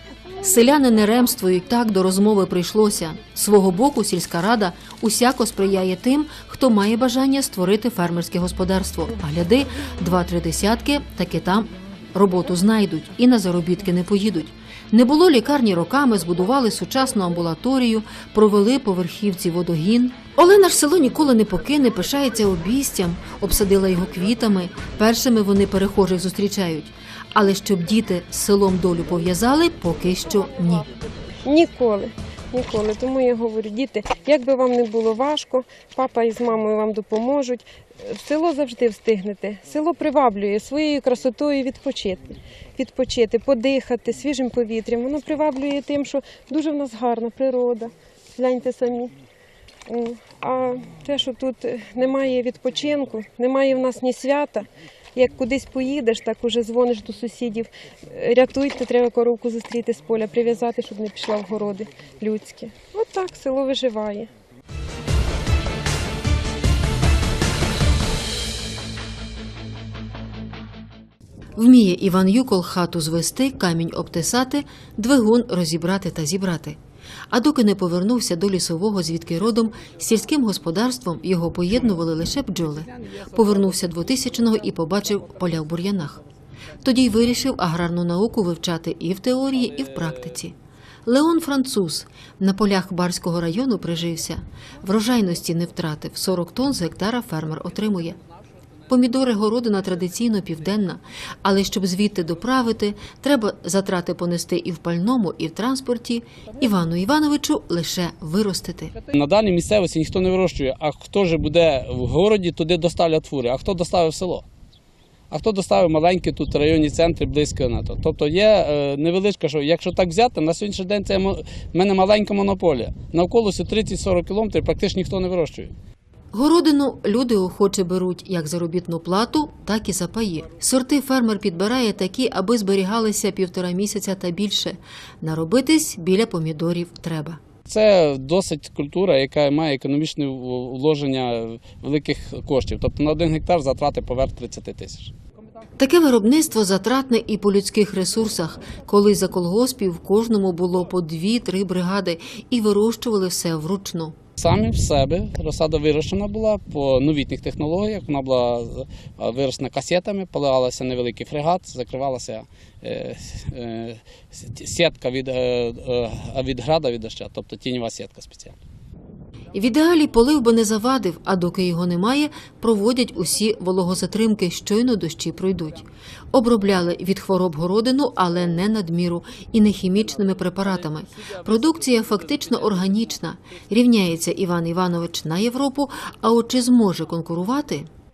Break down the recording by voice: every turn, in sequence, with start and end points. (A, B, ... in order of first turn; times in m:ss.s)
0:00.4-0:30.9 A
0:31.4-0:49.1 B
0:49.9-1:04.3 B
1:11.6-1:16.8 A
1:17.3-1:26.2 A
1:26.8-1:30.6 A
1:31.1-1:38.2 A
1:38.9-1:48.9 A
1:49.1-1:54.5 C
1:55.3-2:05.7 C
2:06.3-2:17.4 A
2:17.7-2:25.1 C
2:25.8-2:34.2 A
2:34.4-2:48.6 C
2:49.5-3:07.9 A